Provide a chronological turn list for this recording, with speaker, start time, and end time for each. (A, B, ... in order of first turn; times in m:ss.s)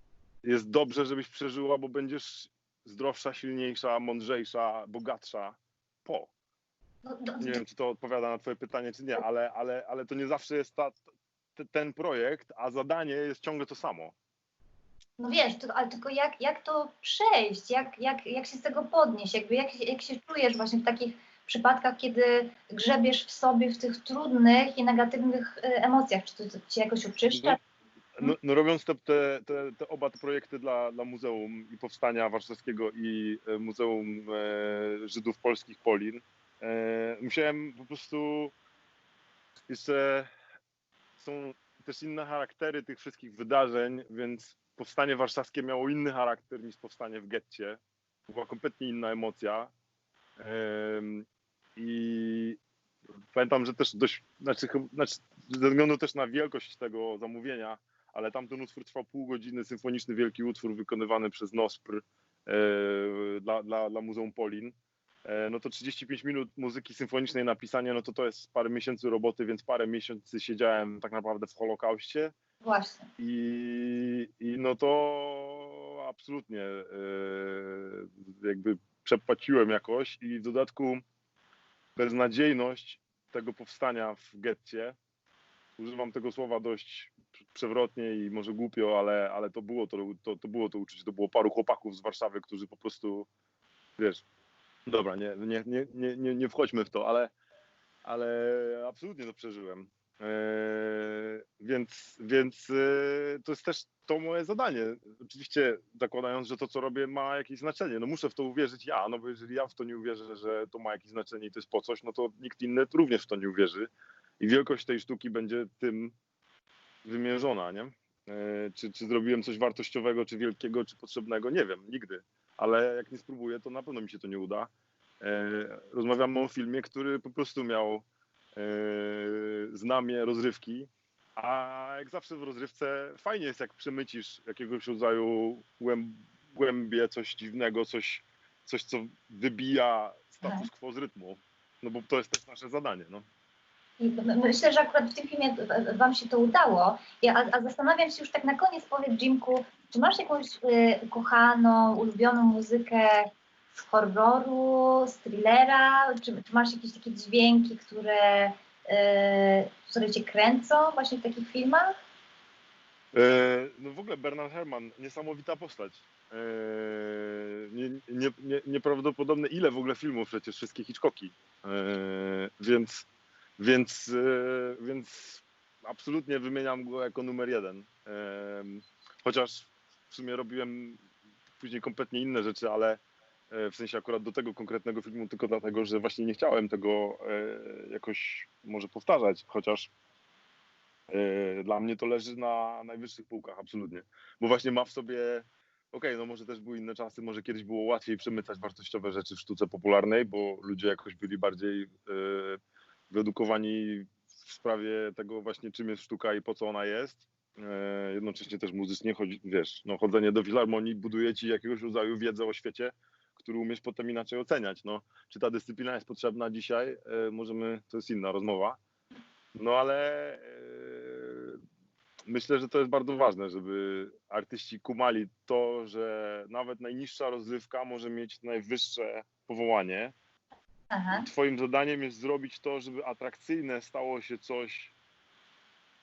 0:00.4-0:06.3 A
0:07.0-0:07.6 B
0:07.4-0:11.0 A
0:11.6-0:14.1 A
0:15.2-0:27.6 B
0:27.3-0:27.6 A
0:28.2-0:38.5 A
0:39.7-0:40.3 A
0:41.2-0:49.7 A
0:50.4-0:52.6 A
0:53.3-1:04.8 A
1:05.3-1:12.3 A
1:12.6-1:13.1 B
1:13.2-1:21.0 A
1:22.0-1:25.0 A
1:25.8-1:33.3 A
1:34.0-1:34.2 A
1:34.9-1:37.3 A
1:38.0-1:56.2 A
1:57.0-2:04.7 A
2:05.2-2:23.2 A
2:24.0-2:42.0 B
2:43.1-2:53.1 A
2:53.6-3:01.0 A
3:01.6-3:09.9 A
3:11.1-3:22.6 A
3:23.1-3:38.8 A
3:39.6-3:41.6 A
3:42.3-3:50.2 A
3:50.9-3:51.3 B
3:51.1-3:54.9 A